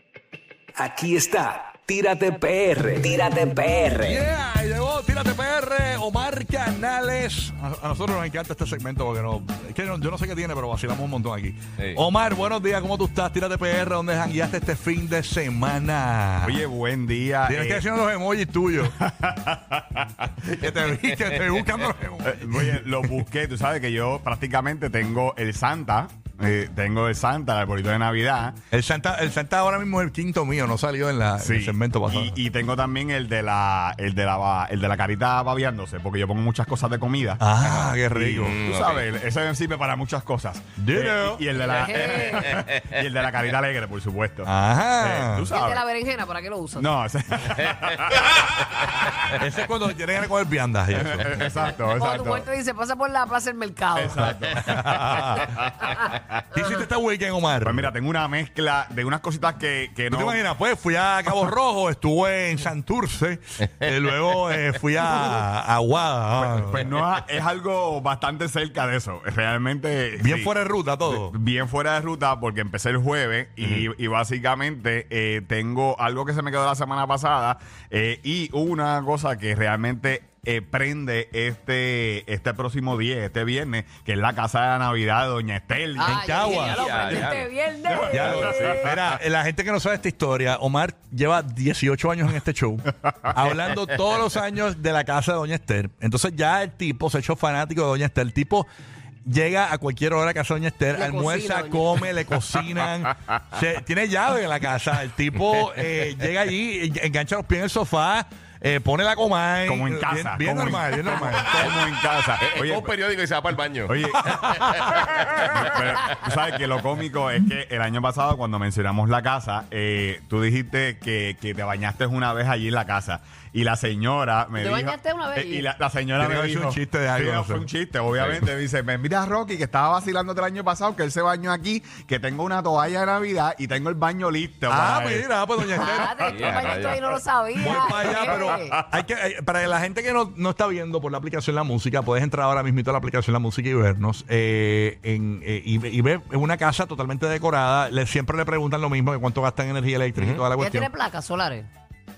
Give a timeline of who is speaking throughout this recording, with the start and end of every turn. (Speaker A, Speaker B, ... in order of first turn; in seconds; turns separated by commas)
Speaker A: 0.8-4.2, Speaker B: 4.0-16.6, Speaker C: 16.4-17.9, Speaker B: 17.4-19.0, Speaker C: 19.0-20.3, Speaker B: 20.4-22.9, Speaker C: 22.2-28.6, Speaker B: 28.7-32.4, Speaker C: 31.4-45.8, Speaker B: 37.4-38.6, Speaker D: 38.4-39.0, Speaker B: 40.8-41.4, Speaker E: 41.6-42.6, Speaker B: 44.5-45.5, Speaker E: 45.5-46.9, Speaker C: 46.8-49.1, Speaker D: 48.1-48.5, Speaker B: 49.3-51.5, Speaker C: 50.9-52.5, Speaker E: 51.9-54.4, Speaker C: 54.0-56.2, Speaker B: 54.5-55.5, Speaker B: 56.5-57.9, Speaker C: 57.6-60.4, Speaker B: 60.1-66.9, Speaker C: 66.4-70.5, Speaker B: 70.2-71.4, Speaker C: 71.1-86.2, Speaker E: 86.0-89.0, Speaker B: 86.0-87.3, Speaker D: 86.5-87.5, Speaker C: 87.9-88.6, Speaker B: 88.1-98.7, Speaker D: 88.2-88.8, Speaker B: 99.2-111.7, Speaker E: 100.9-102.1, Speaker C: 109.6-113.0, Speaker D: 111.6-111.9, Speaker D: 112.4-115.5, Speaker C: 113.8-135.8, Speaker B: 114.4-115.0, Speaker E: 124.6-125.7, Speaker B: 126.2-127.7, Speaker D: 128.2-128.4, Speaker B: 134.7-136.6, Speaker E: 135.8-138.8, Speaker D: 136.2-137.0, Speaker B: 137.6-150.9, Speaker C: 137.8-138.9, Speaker D: 150.2-150.4, Speaker E: 150.6-151.7